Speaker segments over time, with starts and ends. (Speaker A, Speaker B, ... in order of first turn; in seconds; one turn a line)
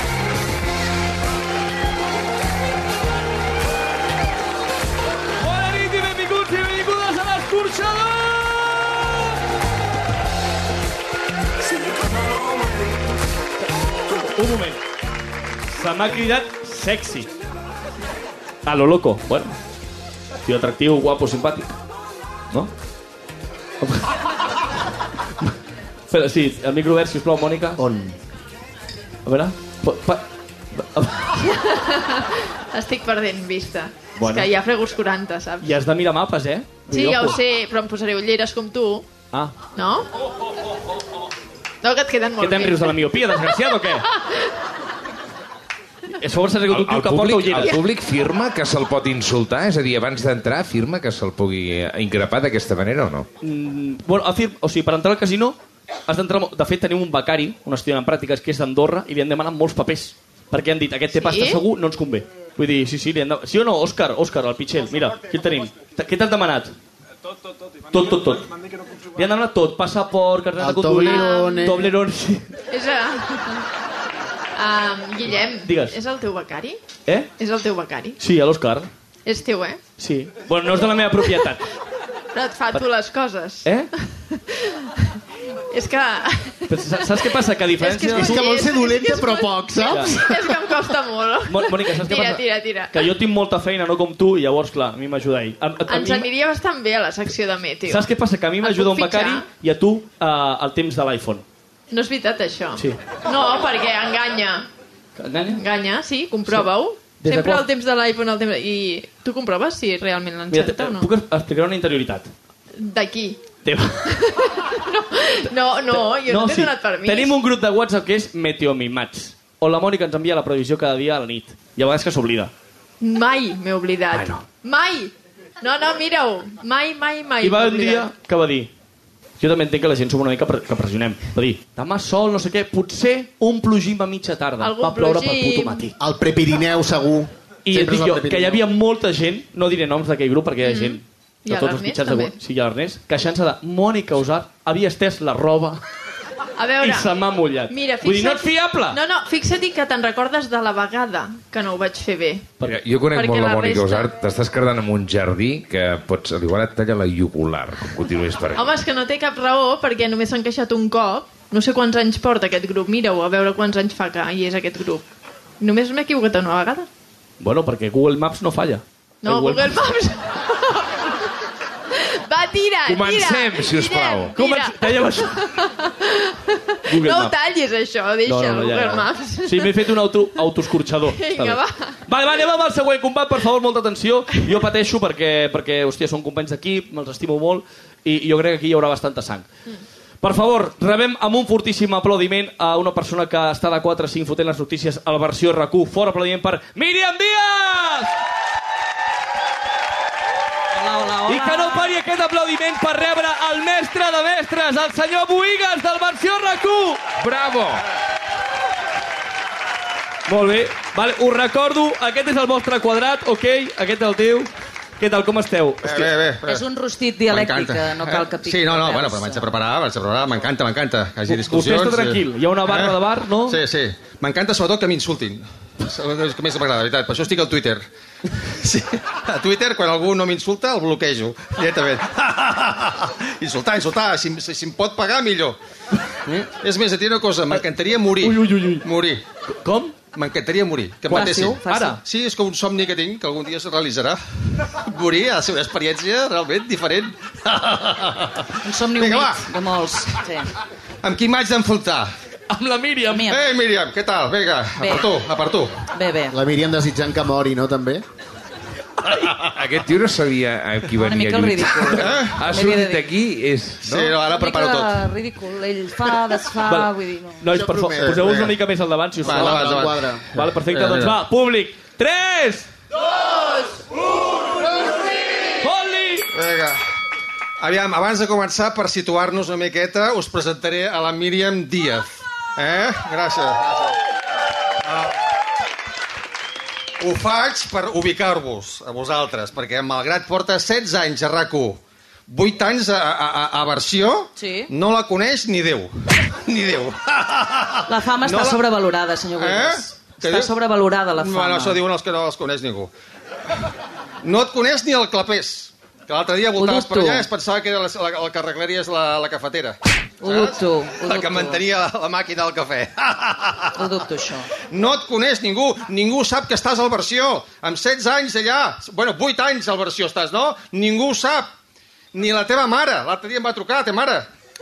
Speaker A: 5.4-9.3
Speaker A: 14.1-14.8
Speaker A: 15.7-17.3
Speaker A: 18.6-19.6
Speaker A: 20.4-21.7
Speaker A: 23.8-24.1
Speaker A: 26.1-27.8
Speaker B: 27.8-28.1
Speaker A: 29.2-31.4
Speaker C: 31.4-35.7
Speaker A: 34.2-34.5
Speaker A: 35.6-37.4
Speaker C: 36.9-39.1
Speaker C: 39.7-40.1
Speaker C: 41.8-43.0
Speaker A: 42.4-44.1
Speaker C: 44.2-44.4
Speaker A: 46.1-47.8
Speaker D: 46.7-53.3
Speaker A: 53.4-66.7
Speaker C: 61.1-61.6
Speaker A: 67.9-68.5
Speaker A: 69.2-72.6
Speaker B: 70.6-71.9
Speaker C: 71.1-71.6
Speaker C: 72.7-73.7
Speaker C: 74.5-76.8
Speaker A: 75.6-76.0
Speaker C: 77.4-78.2
Speaker A: 78.2-78.9
Speaker C: 79.2-79.8
Speaker A: 80.0-81.7
Speaker C: 82.3-83.8
Speaker A: 83.6-83.9
Speaker C: 84.3-86.8
Speaker A: 86.7-88.5
Speaker C: 87.8-93.0
Speaker B: 88.1-90.8
Speaker A: 89.9-90.2
Speaker A: 91.5-96.3
Speaker C: 95.9-98.1
Speaker A: 97.8-101.4
Speaker C: 98.6-99.5
Speaker C: 101.9-104.7
Speaker A: 105.2-105.6
Speaker C: 105.5-111.1
Speaker A: 106.5-107.7
Speaker A: 110.5-112.3
Speaker C: 112.8-113.4
Speaker A: 113.6-114.3
Speaker C: 114.2-117.4
Speaker A: 115.9-122.5
Speaker C: 123.0-128.1
Speaker A: 124.1-124.4
Speaker A: 127.4-128.7
Speaker A: 129.4-135.9
Speaker C: 134.6-135.9
Speaker B: 136.0-138.6
Speaker A: 137.6-145.8
Speaker C: 140.6-142.3
Speaker C: 146.6-147.1
Speaker A: 146.8-149.0
Speaker C: 147.7-152.5
Speaker D: 152.6-158.7
Speaker C: 153.1-154.1
Speaker C: 158.5-165.0
Speaker C: 165.6-166.9
Speaker A: 167.4-170.0
Speaker C: 169.2-171.2
Speaker C: 171.9-179.9
Speaker D: 172.8-174.4
Speaker A: 174.3-175.5
Speaker A: 176.8-177.3
Speaker A: 178.2-189.5
Speaker C: 181.1-182.0
Speaker A: 190.2-198.1
Speaker E: 200.7-202.0
Speaker A: 201.2-207.0
Speaker D: 207.2-207.8
Speaker A: 210.3-216.1
Speaker F: 215.8-216.7
Speaker E: 216.5-219.5
Speaker F: 217.3-235.6
Speaker A: 221.3-223.6
Speaker F: 236.2-239.2
Speaker A: 237.5-238.8
Speaker A: 239.6-239.9
Speaker F: 240.1-249.5
Speaker E: 241.1-242.0
Speaker A: 241.7-242.0
Speaker E: 248.6-250.5
Speaker F: 251.0-252.1
Speaker A: 252.5-253.3
Speaker E: 253.1-253.5
Speaker F: 253.3-255.7
Speaker E: 254.8-255.1
Speaker E: 255.9-256.3
Speaker B: 256.3-258.0
Speaker D: 259.5-264.1
Speaker E: 261.0-263.1
Speaker F: 261.9-262.5
Speaker F: 263.8-265.1
Speaker E: 264.3-267.4
Speaker A: 266.7-269.8
Speaker B: 267.5-268.3
Speaker F: 267.9-268.6
Speaker F: 269.2-271.2
Speaker B: 269.2-270.2
Speaker A: 270.3-272.7
Speaker A: 275.6-276.3
Speaker F: 276.3-276.8
Speaker F: 277.6-283.9
Speaker F: 284.8-285.1
Speaker F: 287.0-298.6
Speaker E: 294.4-294.7
Speaker E: 297.9-301.8
Speaker F: 299.4-300.5
Speaker F: 301.1-302.9
Speaker F: 304.2-313.8
Speaker E: 306.6-307.3
Speaker E: 310.2-311.6
Speaker E: 313.7-314.5
Speaker F: 314.7-321.5
Speaker F: 322.1-324.3